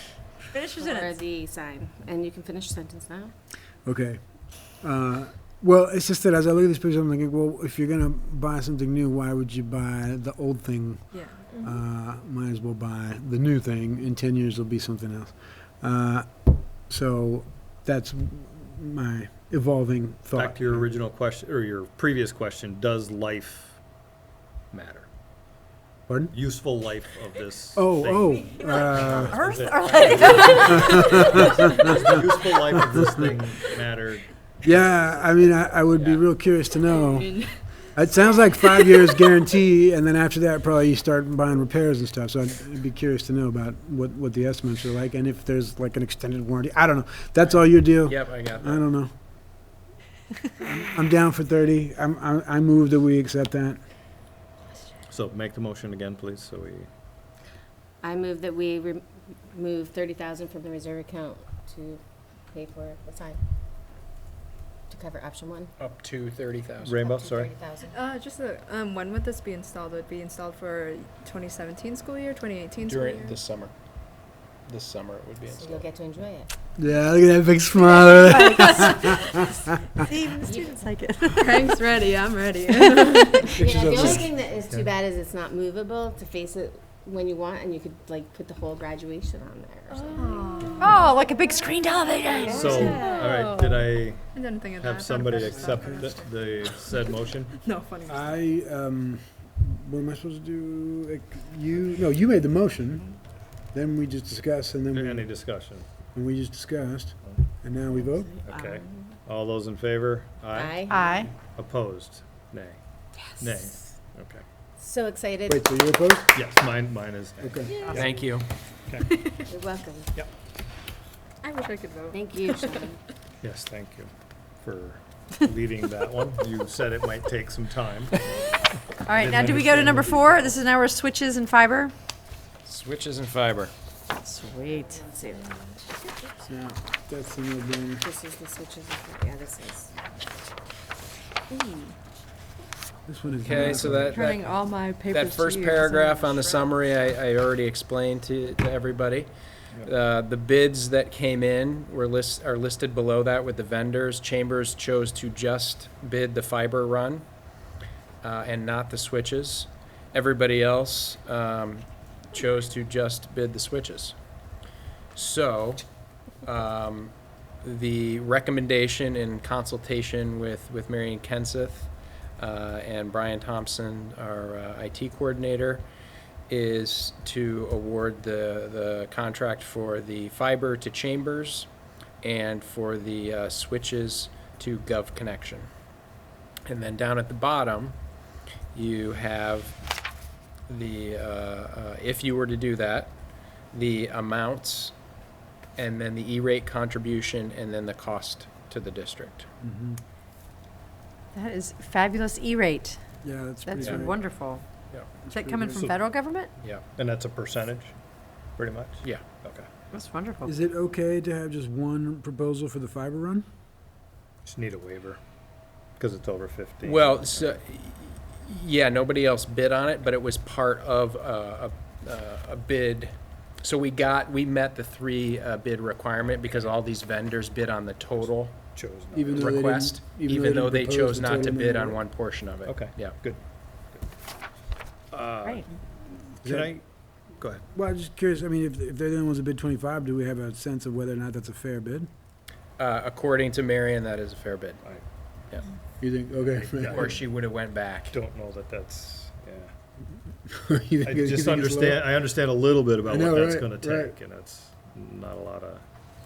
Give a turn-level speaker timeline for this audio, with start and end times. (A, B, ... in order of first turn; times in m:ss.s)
0:00.5-0:01.2 A
0:00.8-0:03.3 B
0:03.8-0:20.9 C
0:11.1-0:11.4 D
0:11.5-0:11.8 B
0:20.3-0:23.8 E
0:24.7-0:25.1 E
0:26.1-0:26.3 C
0:26.3-0:36.2 E
0:27.8-0:29.5 C
0:29.3-0:31.8 A
0:30.6-0:33.3 C
0:34.6-0:49.1 C
0:36.8-0:37.8 D
0:38.4-0:39.1 D
0:47.4-0:48.9 F
0:50.6-0:53.8 C
0:55.1-0:56.9 E
0:58.0-1:03.4 B
1:04.9-1:05.7 B
1:05.8-1:07.0 F
1:06.8-1:07.5 E
1:06.9-1:08.0 B
1:07.9-1:13.4 D
1:12.8-1:13.7 F
1:14.6-1:15.9 F
1:15.4-1:16.5 B
1:16.8-1:19.9 C
1:18.3-1:18.9 A
1:20.0-1:21.4 A
1:20.4-1:20.9 B
1:21.3-1:23.6 D
1:22.7-1:23.3 A
1:23.1-1:30.8 B
1:23.5-1:24.3 C
1:24.7-1:24.9 E
1:29.9-1:31.1 D
1:30.8-1:33.3 A
1:32.5-1:34.2 E
1:32.5-1:32.9 B
1:34.3-1:38.4 D
1:34.8-1:37.6 E
1:35.4-1:36.1 C
1:38.0-1:45.4 C
1:44.9-1:45.9 E
1:46.1-1:48.3 C
1:47.9-1:49.2 B
1:48.4-1:52.8 E
1:50.5-1:51.2 B
1:50.9-1:51.3 A
1:53.2-1:53.8 B
1:53.4-1:54.4 E
1:54.8-1:55.7 B
1:55.5-1:56.3 C
1:56.3-1:58.2 E
1:57.4-1:58.0 C
1:57.6-1:58.0 D
1:58.0-1:58.5 F
1:59.1-1:59.4 D
1:59.4-2:00.1 B
2:01.4-2:02.9 D
2:02.1-2:03.0 B
2:03.4-2:04.1 E
2:04.6-2:08.2 E
2:09.0-2:11.9 A
2:09.1-2:10.6 E
2:12.6-2:13.7 F
2:14.2-2:15.0 A
2:14.6-2:15.7 B
2:16.4-2:18.1 C
2:18.0-2:19.9 B
2:21.5-2:21.9 D
2:23.1-2:24.3 C
2:23.4-2:24.4 F
2:24.2-2:26.6 A
2:25.0-2:29.3 F
2:29.8-2:37.2 F
2:38.2-2:44.2 F
2:45.1-2:45.8 F
2:46.4-2:55.8 F
2:56.5-3:01.7 F
3:02.2-3:05.7 F
3:06.6-3:08.0 F
3:08.7-3:09.8 F
3:10.7-3:13.1 F
3:13.7-3:14.9 F
3:15.8-3:19.5 F
3:19.6-3:20.0 C
3:21.3-3:23.0 A
3:23.2-3:24.3 C
3:23.6-3:24.6 A
3:24.9-3:25.2 F
3:25.3-3:25.9 C
3:25.3-3:26.5 A
3:26.6-3:26.8 F
3:27.0-3:28.0 E
3:28.6-3:29.7 E
3:29.9-3:30.6 A
3:30.4-3:33.4 C
3:34.4-3:35.2 E
3:36.0-3:37.6 E
3:36.8-3:48.6 F
3:48.7-3:49.6 E
3:49.1-3:52.0 C
3:49.4-3:53.2 F
3:52.6-3:53.4 E
3:55.1-3:56.8 E
3:56.4-3:56.7 C
3:57.4-3:57.6 E
3:57.7-4:02.1 C
4:02.8-4:04.8 F
4:06.0-4:07.1 C
4:06.3-4:07.2 E
4:06.9-4:08.2 F
4:08.1-4:09.7 E
4:10.4-4:12.2 C
4:11.0-4:15.8 E
4:13.0-4:14.2 C